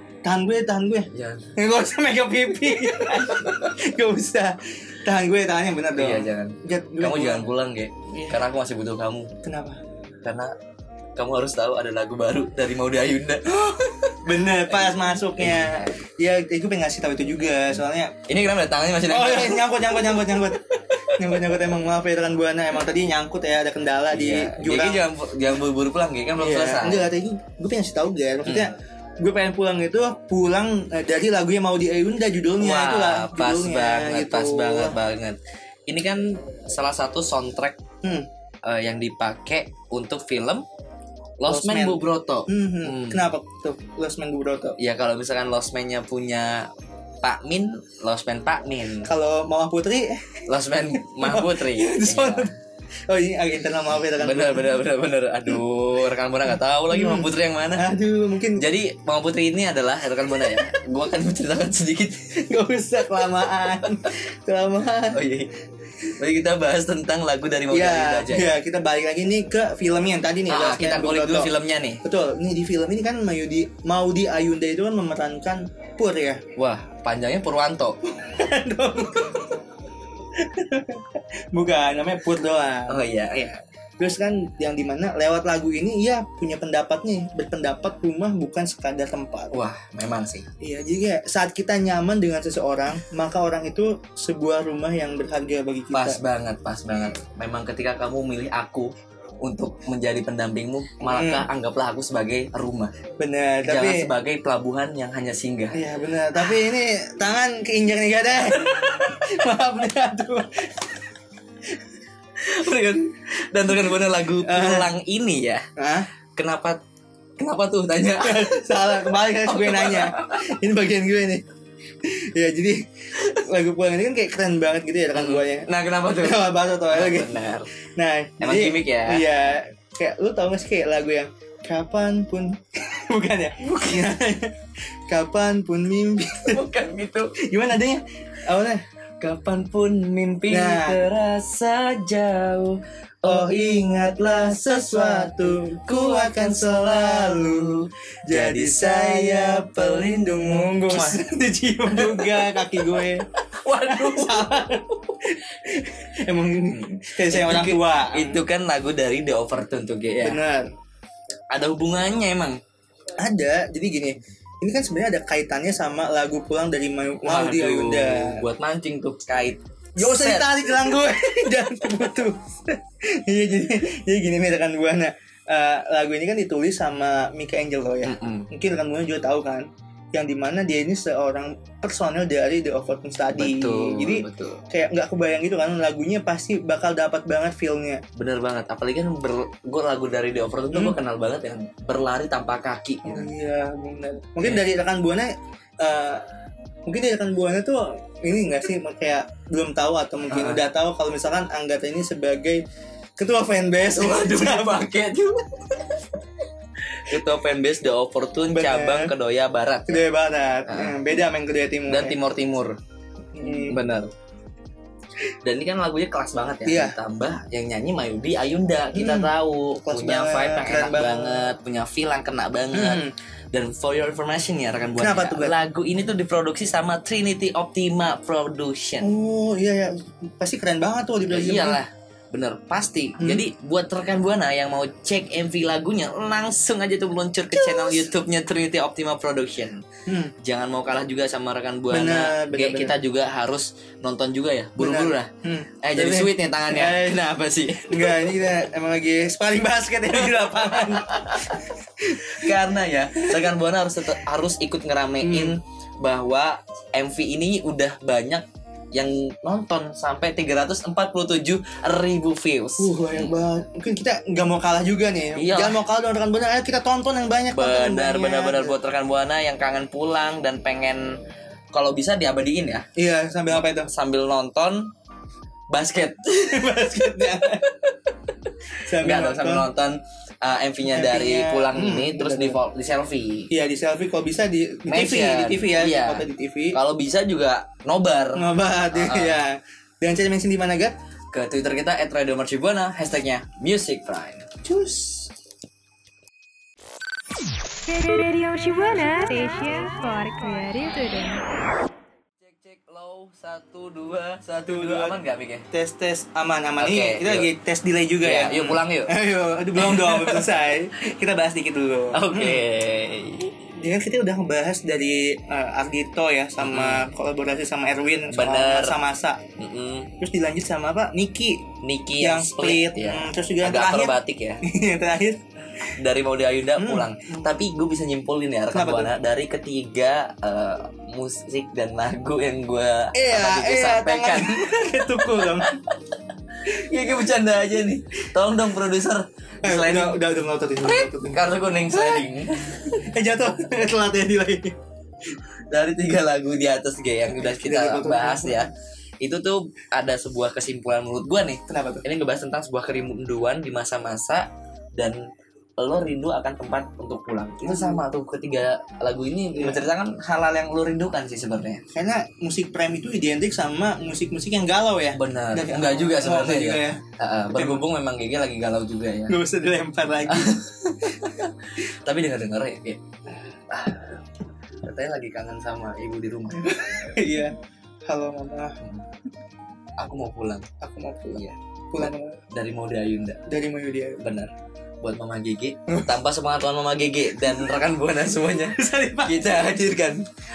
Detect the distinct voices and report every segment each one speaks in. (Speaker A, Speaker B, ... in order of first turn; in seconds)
Speaker A: 0.2-7.5, 8.1-8.4, 9.4-9.8, 14.2-18.2, 19.1-25.1, 26.4-35.0, 41.5-44.8, 49.0-50.4, 51.2-52.5, 53.1-54.8, 56.9-58.6, 62.4-65.2, 67.7-71.5, 72.0-76.4, 78.2-79.6, 80.3-83.0, 84.0-89.5, 90.6-96.2, 101.0-101.5, 103.2-104.1, 105.7-110.9, 114.4-114.9, 115.8-116.1, 118.2-121.5, 122.0-127.3, 127.8-134.5, 135.1-136.6, 137.4-138.8, 140.5-141.0, 143.2-153.3, 153.9-158.4, 160.2-160.7, 163.2-168.4, 170.0-188.0, 190.7-191.0, 193.0-196.3, 196.9-202.6, 203.2-204.8, 208.5-209.1, 209.9-212.2, 213.3-213.8, 216.7-217.0, 218.9-221.5, 222.7-223.1, 225.0-225.6, 229.0-231.8, 233.2-233.4, 237.5-238.1, 240.1-240.3, 241.9-243.0, 244.8-247.2, 247.9-252.5, 255.2-255.6, 262.8-268.8, 273.0-273.9, 276.5-277.7, 278.9-279.7, 280.9-282.6, 283.5-286.8, 288.4-290.9, 294.6-295.3, 304.6-305.2, 305.7-312.6, 313.8-319.4, 320.2-325.4, 326.8-327.5, 328.7-329.1, 333.1-335.8, 339.6-342.3, 342.9-344.8, 347.3-348.7, 351.7-352.0, 357.6-358.1, 359.5-359.8, 361.9-367.0, 367.6-367.9, 369.3-370.6, 376.6-377.6, 378.1-378.8, 380.8-382.4, 383.5-384.2, 388.8-389.7
Speaker B: 1.1-1.5, 6.0-9.3, 10.2-10.5, 11.2-15.9, 18.3-21.3, 24.1-27.1, 32.6-37.8, 38.6-40.7, 41.4-43.2, 44.8-46.7, 47.2-49.1, 50.5-52.5, 54.2-57.9, 58.6-62.3, 65.1-65.5, 66.2-68.5, 70.5-72.0, 76.6-78.0, 82.9-83.6, 89.5-90.5, 95.9-98.9, 99.4-102.9, 103.6-105.8, 112.4-115.7, 116.3-116.8, 117.4-120.5, 125.2-127.7, 128.4-129.2, 133.6-134.1, 136.5-137.3, 139.2-151.2, 151.9-154.6, 156.7-160.4, 161.5-162.6, 167.2-170.7, 178.0-178.5, 183.3-184.6, 188.2-193.3, 200.3-200.6, 204.0-205.9, 207.0-210.0, 210.7-210.9, 211.9-212.8, 213.7-214.1, 215.4-229.1, 231.3-239.9, 240.4-245.3, 245.8-248.3, 250.3-251.6, 252.3-263.3, 265.4-265.8, 267.5-271.2, 271.7-272.9, 273.8-274.9, 275.7-276.7, 279.0-283.5, 284.9-289.4, 291.3-294.5, 302.4-305.7, 306.8-307.5, 308.2-309.1, 309.8-310.5, 312.1-313.5, 316.6-317.1, 318.3-319.0, 319.6-320.1, 321.8-324.6, 326.0-335.5, 336.6-340.2, 340.8-343.0, 345.7-355.3, 355.8-361.8, 365.1-369.4, 370.3-373.0, 373.7-374.2, 374.8-376.7, 380.0-380.7, 381.3-383.4, 384.2-384.5, 385.0-390.2
Speaker C: 297.9-301.4